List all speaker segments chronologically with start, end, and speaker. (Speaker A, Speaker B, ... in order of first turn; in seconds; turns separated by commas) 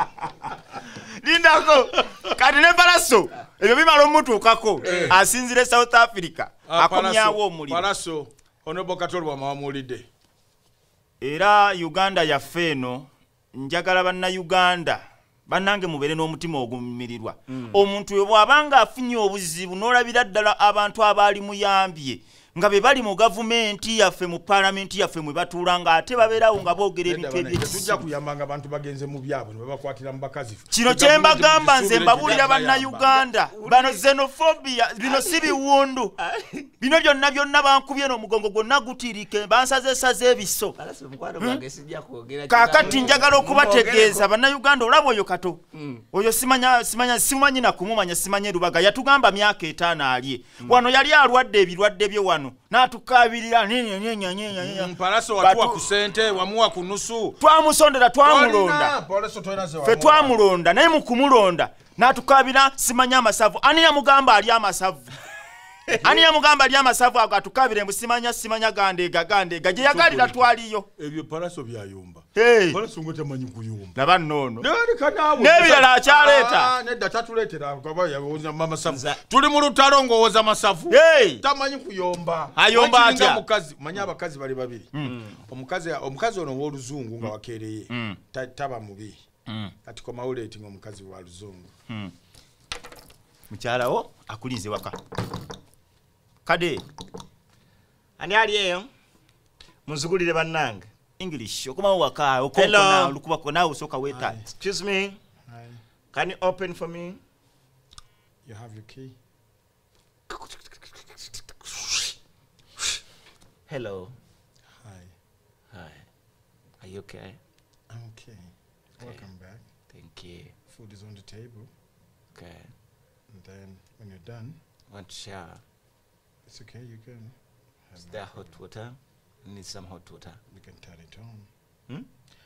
Speaker A: 0.8-7.9, Speaker B: 4.8-5.2, Speaker B: 6.7-10.1, Speaker A: 11.2-28.0, Speaker B: 27.0-33.2, Speaker A: 30.7-36.1, Speaker C: 33.4-34.1, Speaker C: 35.0-35.6, Speaker C: 36.2-36.7, Speaker A: 36.8-40.8, Speaker C: 40.8-44.3, Speaker A: 42.5-45.6, Speaker B: 42.8-43.2, Speaker C: 45.7-46.0, Speaker A: 46.1-55.9, Speaker B: 54.6-57.4, Speaker A: 57.4-58.9, Speaker B: 58.2-60.4, Speaker A: 59.8-65.1, Speaker A: 66.0-70.9, Speaker B: 69.8-70.4, Speaker B: 71.0-74.0, Speaker A: 72.3-72.8, Speaker A: 73.9-74.6, Speaker B: 74.6-84.9, Speaker A: 75.3-76.7, Speaker C: 78.8-79.2, Speaker A: 80.9-81.4, Speaker A: 82.6-83.4, Speaker C: 85.0-85.4, Speaker B: 85.5-89.2, Speaker A: 87.9-88.2, Speaker A: 89.5-89.7, Speaker B: 89.8-91.7, Speaker A: 91.9-92.1, Speaker A: 93.5-95.0, Speaker A: 96.4-96.8, Speaker C: 98.2-98.9, Speaker C: 99.8-100.9, Speaker A: 101.2-104.4, Speaker C: 102.5-103.2, Speaker B: 104.1-104.5, Speaker C: 104.5-105.2, Speaker B: 105.5-105.8, Speaker C: 106.1-107.2, Speaker B: 108.4-109.1, Speaker C: 110.3-112.1, Speaker C: 113.7-114.1, Speaker B: 114.8-115.1, Speaker C: 115.7-116.1, Speaker C: 116.8-117.4, Speaker B: 117.9-118.4, Speaker B: 119.0-119.6, Speaker C: 119.9-120.5, Speaker B: 120.7-121.7, Speaker C: 122.3-122.7, Speaker B: 123.3-124.6, Speaker C: 124.9-125.6, Speaker B: 126.5-127.3, Speaker B: 127.9-128.6, Speaker C: 128.0-130.4, Speaker B: 130.5-131.4